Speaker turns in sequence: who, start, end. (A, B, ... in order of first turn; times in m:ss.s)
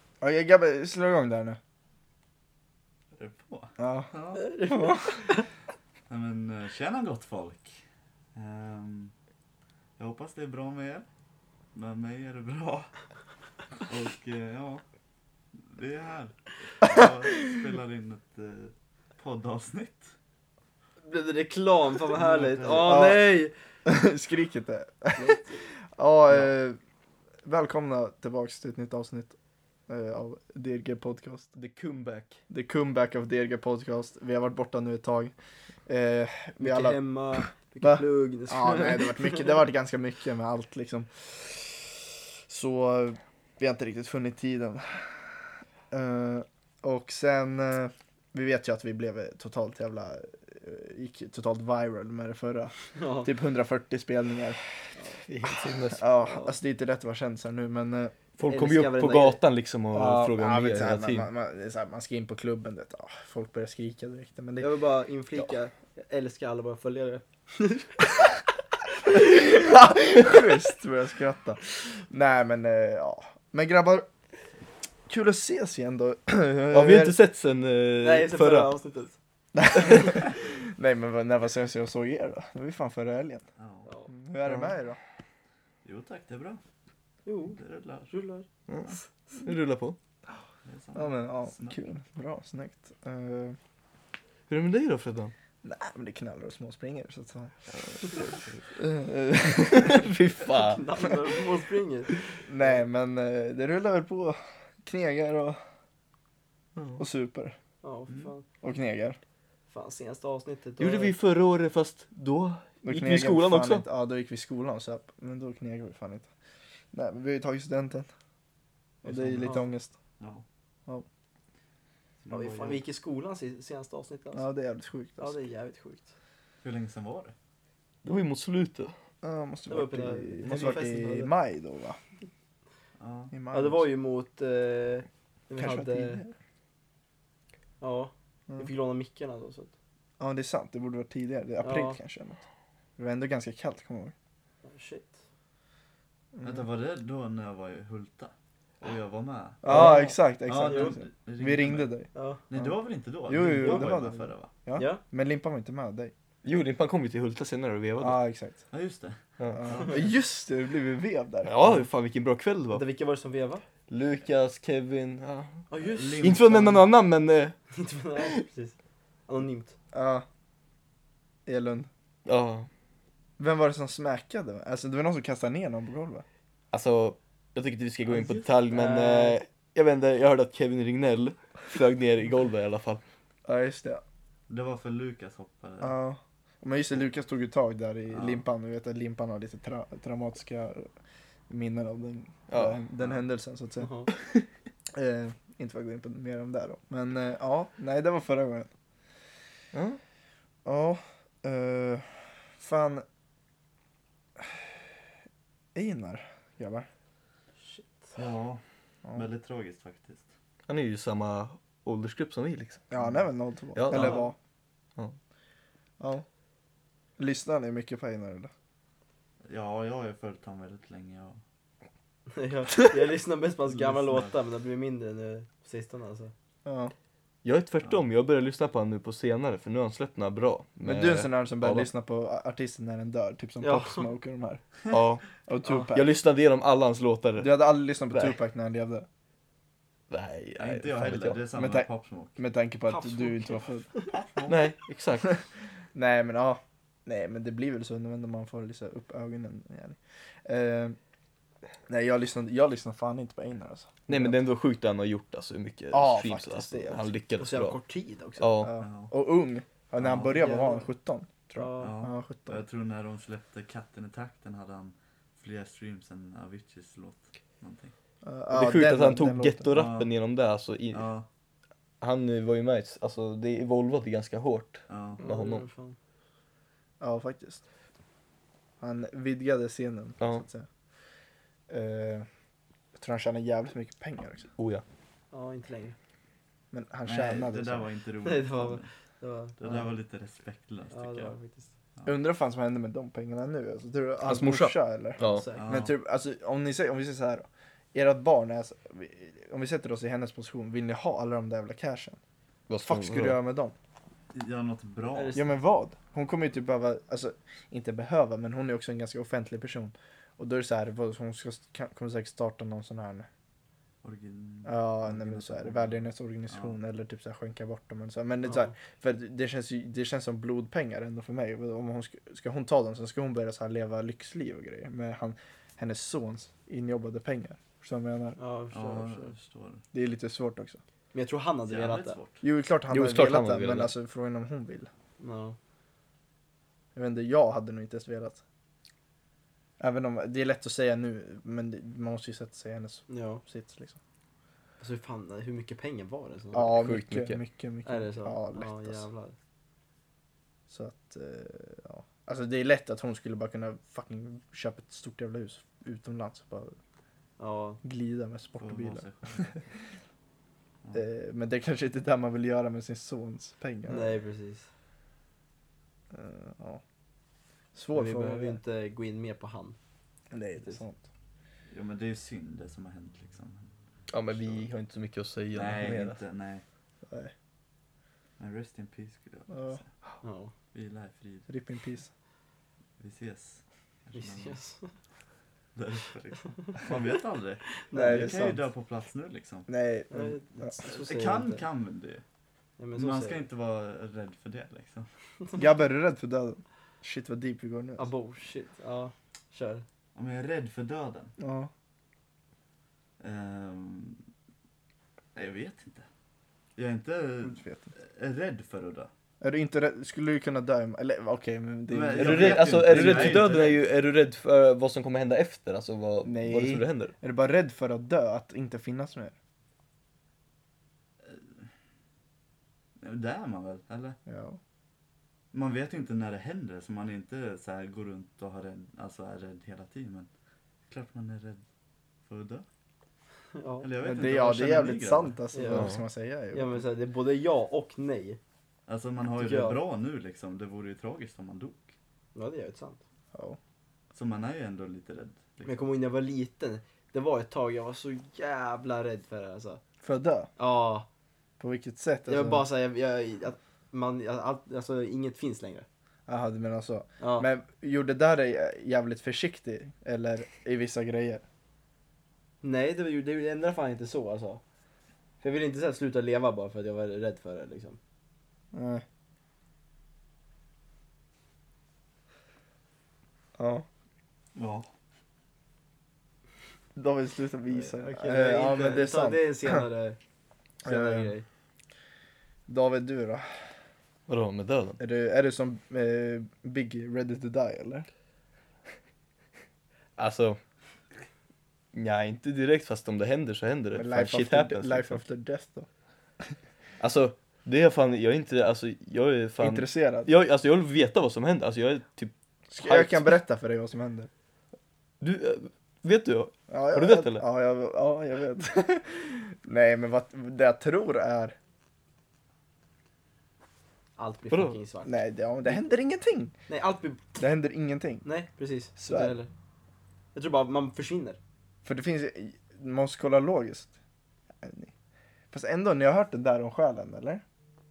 0:00.2-0:01.6 A
0:03.2-0:04.5 B
0:03.8-0:04.1 A
0:04.4-0:05.4 C
0:04.6-0:05.2 A
0:06.1-0:07.8 B
0:08.3-0:09.1 B
0:10.0-0:11.0 B
0:11.7-0:12.9 B
0:13.8-0:14.8 B
0:15.5-0:20.1 B
0:21.0-0:23.5 C
0:22.1-0:23.0 B
0:22.8-0:23.2 A
0:23.8-0:25.4 A
0:25.2-0:25.6 C
0:26.0-0:26.8 A
0:27.4-0:29.3 A
0:29.9-0:31.5 A
0:31.5-0:32.4 D
0:32.5-0:35.3 A
0:35.9-0:37.0 A
0:36.6-0:39.5 C
0:37.8-0:54.6 A
0:53.0-0:53.3 C
0:55.0-0:55.2 C
0:55.2-0:56.0 D
0:55.9-0:58.1 A
0:56.3-0:56.5 C
0:58.4-1:01.3 D
0:58.5-0:59.4 C
0:59.9-1:04.7 A
1:04.6-1:07.9 C
1:09.0-1:14.1 A
1:15.1-1:17.2 A
1:16.7-1:18.7 D
1:18.0-1:19.1 C
1:19.5-1:23.4 A
1:23.6-1:23.9 B
1:24.1-1:25.0 A
1:24.4-1:24.7 D
1:25.8-1:26.6 B
1:27.2-1:29.1 C
1:27.6-1:28.1 B
1:28.7-1:30.0 D
1:30.6-1:31.8 B
1:30.9-1:33.6 A
1:34.5-1:35.3 D
1:35.6-1:37.5 A
1:37.7-1:38.7 B
1:38.7-1:40.1 A
1:39.6-1:41.1 D
1:40.5-1:42.2 C
1:42.4-1:45.6 A
1:46.8-1:47.0 D
1:47.0-1:47.6 A
1:47.8-1:48.4 C
1:48.6-1:49.2 A
1:49.7-1:51.1 C
1:50.8-1:53.8 D
1:52.8-1:56.3 A
1:56.9-1:58.1 A
1:59.0-1:59.9 A
1:59.0-1:59.6 B
2:00.2-2:00.4 B
2:02.2-2:02.8 B
2:02.3-2:04.4 C
2:04.3-2:05.4 A
2:05.2-2:06.1 C
2:06.6-2:07.3 B
2:08.0-2:08.9 D
2:09.2-2:12.0 A
2:09.7-2:11.3 C
2:13.0-2:13.3 B
2:13.3-2:13.8 A
2:13.5-2:16.2 C
2:15.6-2:16.3 A
2:17.8-2:19.7 C
2:20.2-2:22.4 A
2:21.6-2:22.0 C
2:23.0-2:24.1 A
2:24.6-2:25.2 C
2:26.3-2:26.6 A
2:26.4-2:31.9 B
2:29.6-2:32.7 A
2:29.7-2:30.1 D
2:29.7-2:31.0 C
2:32.1-2:32.4 C
2:32.5-2:34.5 B
2:33.3-2:36.1 A
2:34.8-2:35.0 C
2:36.4-2:38.2 D
2:38.0-2:38.6 A
2:38.7-2:40.0 B
2:39.6-2:41.8 A
2:41.4-2:42.8 D
2:42.7-2:43.6 C
2:43.9-2:45.6 D
2:45.7-2:46.4 C
2:45.8-2:46.8 B
2:46.2-2:47.6 D
2:47.7-2:48.8 C
2:49.3-2:49.7 C
2:49.9-2:50.2 A
2:51.4-2:51.9 A
2:52.2-2:52.7 D
2:53.4-2:56.2 A
2:56.7-3:03.0 D
2:58.1-2:58.5 B
2:58.7-2:59.4 C
3:03.4-3:04.0 A
3:04.5-3:05.9 B
3:05.8-3:10.9 A
3:08.1-3:08.4 B
3:11.5-3:13.9 A
3:12.5-3:12.8 D
3:13.0-3:13.2 B
3:13.8-3:14.1 C
3:14.9-3:18.7 A
3:19.7-3:20.0 D
3:20.6-3:23.0 A
3:25.7-3:26.9 A
3:27.6-3:28.2 C
3:28.1-3:28.6 B
3:29.1-3:30.3 B
3:30.7-3:32.8 D
3:32.9-3:34.4 A
3:33.7-3:34.2 D
3:33.9-3:34.3 C
3:36.0-3:36.2 A
3:37.2-3:38.5 A
3:39.4-3:41.4 B
3:42.3-3:46.3 C
3:43.7-3:44.3 B
3:46.6-3:46.9 A
3:47.4-3:51.9 D
3:50.8-3:54.6 A
3:53.6-3:54.0 C
3:54.9-3:55.2 D
3:55.5-3:56.1 A
3:55.9-3:57.5 D
3:57.4-3:59.1 A
4:00.1-4:01.4 D
4:00.6-4:02.4 B
4:01.5-4:03.9 A
4:02.9-4:04.0 C
4:04.1-4:04.7 B
4:04.5-4:05.3 D
4:05.9-4:11.0 A
4:11.9-4:14.4 A
4:14.1-4:17.8 D
4:15.9-4:17.1 A
4:17.4-4:18.5 C
4:18.4-4:18.7 D
4:18.6-4:22.6 A
4:18.8-4:19.1 B
4:20.0-4:20.5 B
4:20.4-4:20.9 C
4:21.6-4:21.9 C
4:21.8-4:27.9 B
4:28.2-4:29.6 A
4:28.5-4:31.1 D
4:29.7-4:30.1 B
4:30.9-4:31.2 B
4:32.0-4:35.6 D
4:34.9-4:35.2 B
4:35.2-4:36.0 C
4:37.0-4:37.6 A
4:38.8-4:40.7 A
4:41.7-4:42.3 A
4:43.0-4:44.5 A
4:44.6-4:44.8 D
4:45.3-4:46.0 C
4:46.7-4:47.9 A
4:47.0-4:48.9 B
4:48.2-4:49.9 C
4:49.6-4:51.3 B
4:50.9-4:51.7 C
4:52.0-5:02.2 A
4:54.2-4:55.4 D
4:55.2-4:55.7 C
4:55.5-4:55.9 B
5:02.7-5:03.4 D
5:02.8-5:03.7 A
5:04.3-5:05.4 B
5:05.1-5:05.5 C
5:05.3-5:13.3 A
5:14.0-5:16.8 B
5:14.6-5:28.4 A
5:18.4-5:18.7 C
5:28.4-5:29.3 C
5:28.7-5:29.8 B
5:29.9-5:30.8 A
5:31.1-5:32.2 C
5:31.7-5:32.4 B
5:32.4-5:34.9 A
5:32.9-5:33.9 D
5:35.2-5:35.6 C
5:36.9-5:38.4 A
5:39.8-5:44.0 A
5:43.1-5:43.4 C
5:44.8-5:46.8 C
5:46.5-5:49.0 A
5:46.8-5:47.4 D
5:47.8-5:49.3 C
5:50.7-5:56.8 A
5:57.4-5:57.8 C
5:57.8-5:59.5 A
5:58.6-5:59.7 B
6:00.9-6:04.2 A
6:03.9-6:04.7 C
6:06.1-6:06.8 A
6:07.7-6:08.6 A
6:07.9-6:09.8 C
6:10.3-6:11.0 A
6:11.7-6:13.7 B
6:14.1-6:16.2 D
6:14.3-6:14.6 B
6:15.5-6:16.6 B
6:17.1-6:17.3 A
6:18.4-6:19.9 B
6:19.5-6:19.8 A
6:20.2-6:20.5 C
6:20.7-6:21.5 B
6:21.5-6:22.1 A
6:23.0-6:24.6 B
6:24.1-6:24.9 C
6:25.7-6:29.7 B
6:27.9-6:28.5 C
6:27.9-6:28.6 A
6:29.7-6:30.8 A
6:30.1-6:31.6 C
6:30.8-6:32.2 B
6:32.8-6:33.4 C
6:33.0-6:35.1 B
6:35.6-6:38.1 A
6:38.0-6:39.8 C
6:40.1-6:41.3 B
6:41.4-6:41.7 A
6:43.2-6:44.2 B
6:45.3-6:46.1 B
6:46.8-6:49.1 B
6:47.4-6:47.9 A
6:49.4-6:53.5 A
6:51.9-6:53.8 B
6:52.1-6:57.1 D
6:56.2-6:59.3 A
7:01.2-7:01.7 B
7:03.0-7:04.2 B
7:04.3-7:04.6 A
7:05.5-7:10.3 B
7:10.9-7:11.6 B
7:12.3-7:12.6 B
7:13.5-7:13.9 C
7:13.8-7:15.3 B
7:14.0-7:16.8 A
7:15.5-7:15.9 C
7:15.7-7:16.0 D
7:16.5-7:18.4 C
7:18.9-7:21.9 B
7:19.4-7:19.8 C
7:22.3-7:23.0 C
7:24.1-7:25.9 B
7:25.6-7:29.8 C
7:30.0-7:30.5 A
7:30.6-7:31.1 C
7:31.6-7:32.6 A
7:32.3-7:35.8 C
7:36.3-7:41.4 A
7:37.2-7:37.5 C
7:42.6-7:44.6 C
7:45.4-7:48.0 C
7:48.7-7:49.0 A
7:53.6-7:53.8 A
7:54.5-7:54.9 B
7:56.9-7:59.8 A
7:57.7-8:00.2 C
8:00.8-8:01.4 C
8:00.8-8:01.3 A
8:02.7-8:03.5 A
8:04.3-8:05.0 D
8:05.0-8:08.1 A
8:10.2-8:10.6 D
8:11.9-8:15.2 D
8:13.9-8:15.9 A
8:17.0-8:23.3 D
8:19.6-8:20.3 A
8:22.7-8:24.3 A
8:25.2-8:27.4 D
8:26.7-8:31.6 A
8:34.2-8:35.1 C
8:34.5-8:34.8 D
8:35.0-8:36.5 A
8:36.7-8:37.2 C
8:37.4-8:38.2 A
8:38.2-8:39.5 C
8:39.0-8:39.4 A
8:40.3-8:41.4 C
8:41.8-8:43.9 A
8:44.6-8:44.9 A
8:45.5-8:47.4 A